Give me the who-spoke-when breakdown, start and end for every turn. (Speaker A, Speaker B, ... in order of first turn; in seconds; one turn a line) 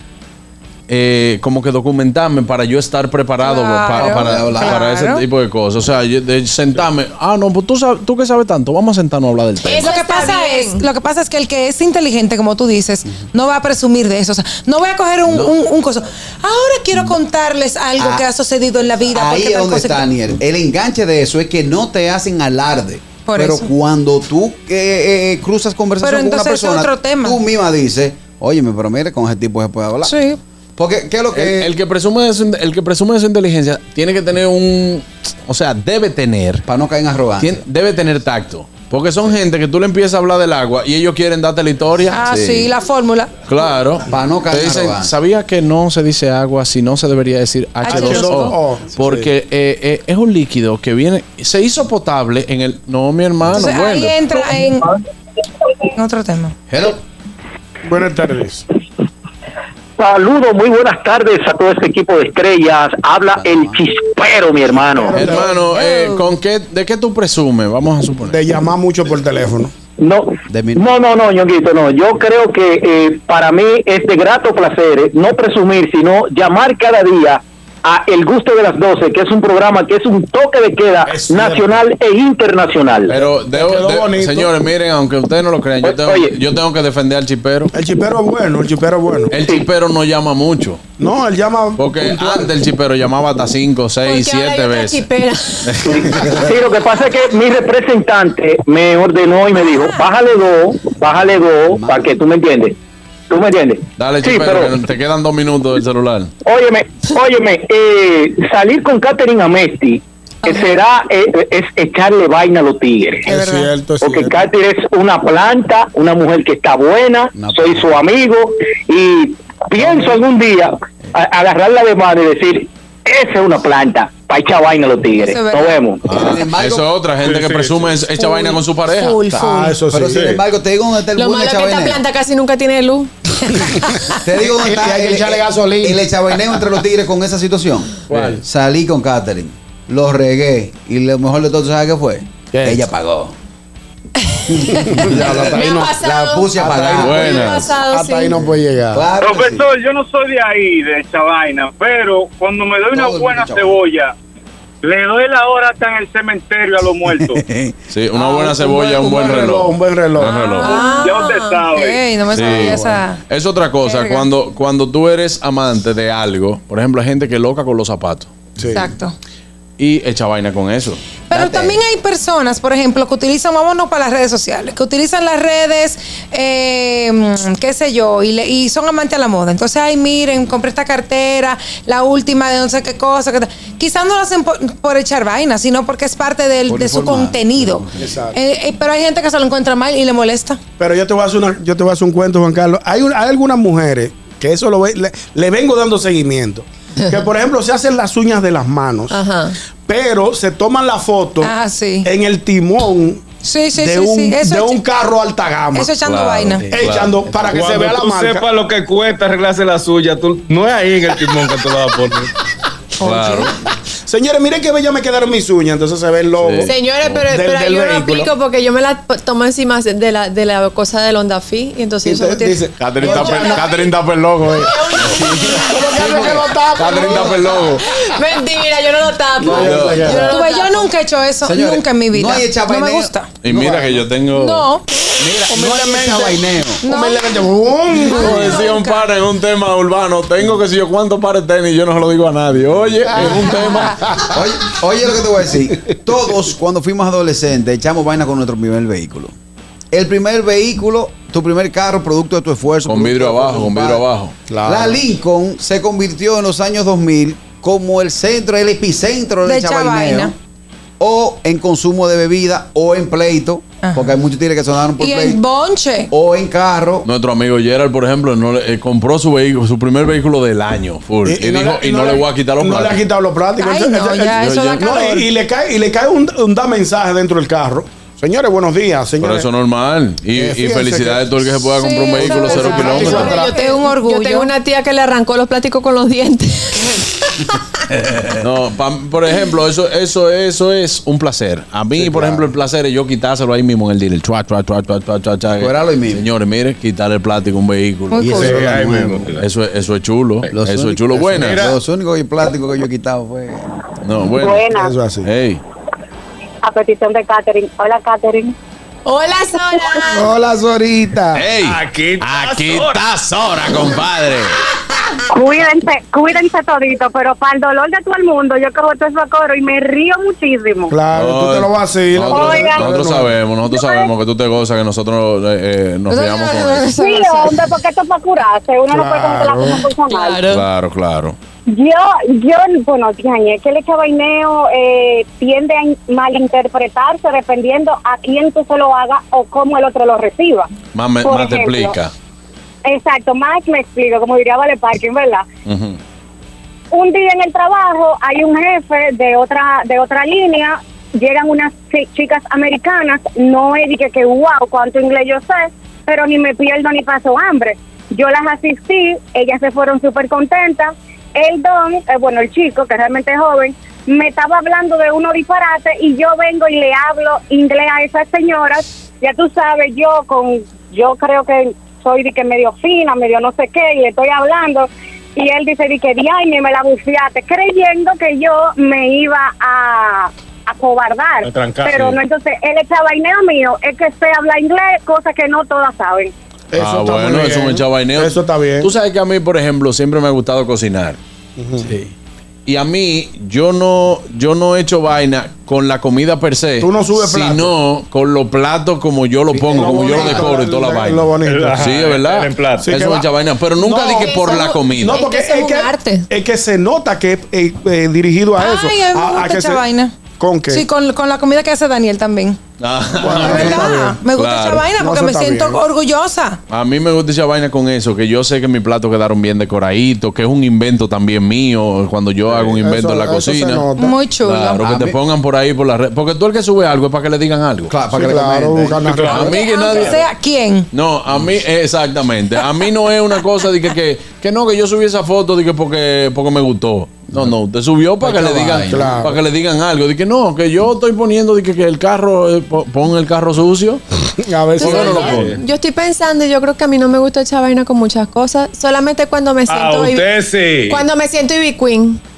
Speaker A: 0.9-9.9
Speaker B: 3.4-5.2
Speaker C: 4.0-4.8
Speaker D: 9.6-10.8
Speaker B: 9.8-20.1
Speaker C: 18.0-18.3
Speaker C: 19.1-30.1
Speaker B: 23.2-23.7
Speaker B: 26.0-27.4
Speaker B: 30.0-30.4
Speaker C: 30.8-31.7
Speaker A: 31.3-36.6
Speaker C: 36.7-37.6
Speaker A: 37.4-42.2
Speaker B: 42.1-43.3
Speaker C: 42.3-42.7
Speaker A: 43.5-54.3
Speaker C: 44.1-45.1
Speaker B: 47.8-48.5
Speaker E: 47.9-49.3
Speaker B: 53.5-55.0
Speaker B: 55.9-56.5
Speaker A: 56.7-57.0
Speaker E: 57.8-58.6
Speaker F: 60.0-65.2
Speaker C: 63.3-64.0
Speaker E: 64.9-65.6
Speaker A: 65.1-68.5
Speaker E: 68.2-69.7
Speaker F: 70.0-83.1
Speaker C: 70.5-71.0
Speaker E: 81.0-81.8
Speaker A: 83.1-87.7
Speaker E: 83.1-84.5
Speaker F: 85.8-86.4
Speaker E: 87.7-89.4
Speaker A: 89.3-90.8
Speaker F: 89.4-89.6
Speaker E: 91.0-92.6
Speaker A: 91.8-95.1
Speaker D: 94.0-95.8
Speaker A: 95.6-96.4
Speaker F: 95.8-102.7
Speaker C: 101.7-102.1
Speaker F: 103.3-104.8
Speaker A: 104.0-106.3
Speaker F: 106.4-113.2
Speaker D: 110.5-110.7
Speaker E: 113.2-114.5
Speaker B: 113.3-113.7
Speaker F: 114.0-126.0
Speaker C: 117.3-118.0
Speaker E: 119.8-120.1
Speaker B: 125.2-125.8
Speaker A: 126.0-129.2
Speaker C: 126.1-126.9
Speaker G: 127.2-127.9
Speaker B: 128.2-129.8
Speaker E: 129.3-130.4
Speaker C: 129.9-132.0
Speaker D: 131.1-133.1
Speaker C: 134.2-143.3
Speaker E: 134.3-136.1
Speaker A: 138.1-138.4
Speaker E: 138.1-138.3
Speaker C: 144.5-147.6
Speaker E: 144.9-145.9
Speaker D: 145.4-148.3
Speaker E: 146.6-149.1
Speaker A: 146.9-147.7
Speaker C: 148.3-149.7
Speaker H: 149.2-154.1
Speaker C: 152.9-153.8
Speaker H: 154.8-157.4
Speaker C: 157.1-157.7
Speaker A: 157.9-160.8
Speaker E: 158.1-160.4
Speaker B: 160.2-163.2
Speaker D: 160.6-161.6
Speaker H: 160.7-162.8
Speaker A: 162.3-168.3
Speaker B: 163.8-164.3
Speaker E: 168.6-168.9
Speaker B: 168.7-169.1
Speaker A: 169.8-171.0
Speaker B: 171.3-190.6
Speaker C: 171.3-171.8
Speaker C: 186.7-188.0
Speaker E: 188.0-188.3
Speaker E: 190.8-199.2
Speaker D: 199.1-199.6
Speaker E: 199.9-203.2
Speaker B: 201.4-202.1
Speaker B: 203.4-204.8
Speaker E: 203.7-205.9
Speaker B: 205.7-206.7
Speaker A: 206.0-207.2
Speaker E: 206.7-208.4
Speaker G: 207.5-212.3
Speaker B: 213.0-213.5
Speaker A: 213.0-213.5
Speaker E: 214.1-216.8
Speaker A: 216.3-217.3
Speaker D: 216.6-223.9
Speaker E: 217.3-218.3
Speaker E: 222.0-223.8
Speaker A: 222.8-225.4
Speaker C: 223.1-223.6
Speaker D: 224.6-226.1
Speaker C: 225.3-227.7
Speaker E: 225.5-227.7
Speaker A: 226.0-227.8
Speaker D: 227.6-230.9
Speaker E: 229.4-230.4
Speaker C: 229.4-230.2
Speaker A: 229.6-230.3
Speaker B: 230.2-233.3
Speaker C: 231.4-234.1
Speaker A: 233.4-234.7
Speaker B: 234.3-234.8
Speaker C: 235.2-236.8
Speaker E: 235.5-238.7
Speaker B: 236.8-237.3
Speaker B: 237.9-239.1
Speaker A: 238.2-244.0
Speaker B: 243.1-243.9
Speaker E: 243.2-244.4
Speaker C: 244.3-249.3
Speaker C: 249.9-254.0
Speaker A: 252.9-254.3
Speaker E: 254.5-255.0
Speaker C: 254.6-260.3
Speaker B: 259.4-260.3
Speaker C: 261.0-265.4
Speaker B: 263.8-264.2
Speaker B: 265.0-266.1
Speaker C: 266.1-267.1
Speaker A: 267.0-273.0
Speaker E: 271.2-279.5
Speaker B: 273.6-275.3
Speaker A: 274.3-274.9
Speaker A: 279.2-283.2
Speaker E: 280.3-283.5
Speaker B: 281.7-284.5
Speaker D: 282.8-287.6
Speaker A: 288.3-298.3
Speaker C: 291.9-292.5
Speaker C: 295.5-296.2
Speaker B: 298.1-298.7
Speaker C: 298.2-299.2
Speaker G: 298.3-299.5
Speaker A: 299.4-301.6
Speaker C: 300.5-303.7
Speaker G: 301.3-301.8
Speaker A: 304.0-305.6
Speaker I: 304.4-304.9
Speaker E: 304.8-305.3
Speaker I: 306.6-308.5
Speaker D: 309.1-310.3
Speaker I: 309.7-310.0
Speaker C: 310.1-311.4
Speaker A: 311.3-314.6
Speaker G: 311.6-313.0
Speaker I: 315.3-321.0
Speaker E: 320.9-323.3
Speaker A: 321.1-327.0
Speaker I: 322.3-323.0
Speaker I: 323.7-324.1
Speaker B: 326.2-327.0
Speaker D: 326.8-327.6
Speaker I: 327.0-330.4
Speaker E: 328.9-329.8
Speaker D: 330.1-330.6
Speaker A: 330.5-331.4
Speaker I: 331.7-340.7
Speaker A: 340.9-342.1
Speaker I: 341.2-341.9
Speaker I: 342.8-345.4
Speaker A: 345.6-346.0
Speaker I: 346.9-386.3
Speaker G: 381.4-382.2
Speaker E: 386.7-388.9
Speaker A: 386.8-391.2
Speaker E: 391.6-391.9
Speaker A: 392.6-405.1
Speaker E: 396.8-397.7
Speaker C: 399.5-400.6
Speaker E: 399.7-401.9
Speaker G: 401.4-402.9
Speaker E: 402.8-409.9
Speaker D: 403.9-406.2
Speaker B: 408.6-410.1
Speaker E: 410.4-410.9
Speaker B: 410.7-412.6
Speaker A: 412.8-414.9
Speaker E: 413.2-414.2
Speaker B: 413.3-416.6
Speaker C: 413.4-414.1
Speaker E: 414.9-415.8
Speaker A: 416.7-423.9
Speaker E: 422.5-424.2
Speaker B: 424.0-424.8
Speaker A: 424.4-428.0
Speaker C: 424.8-425.2
Speaker C: 427.9-429.1
Speaker E: 428.1-429.6
Speaker A: 429.2-430.2
Speaker B: 429.3-430.9
Speaker A: 430.9-444.0
Speaker C: 438.2-439.2
Speaker E: 438.9-439.4
Speaker E: 444.4-445.5
Speaker A: 444.8-445.5
Speaker D: 444.8-450.3
Speaker G: 445.3-445.6
Speaker G: 449.7-451.0
Speaker D: 450.9-452.2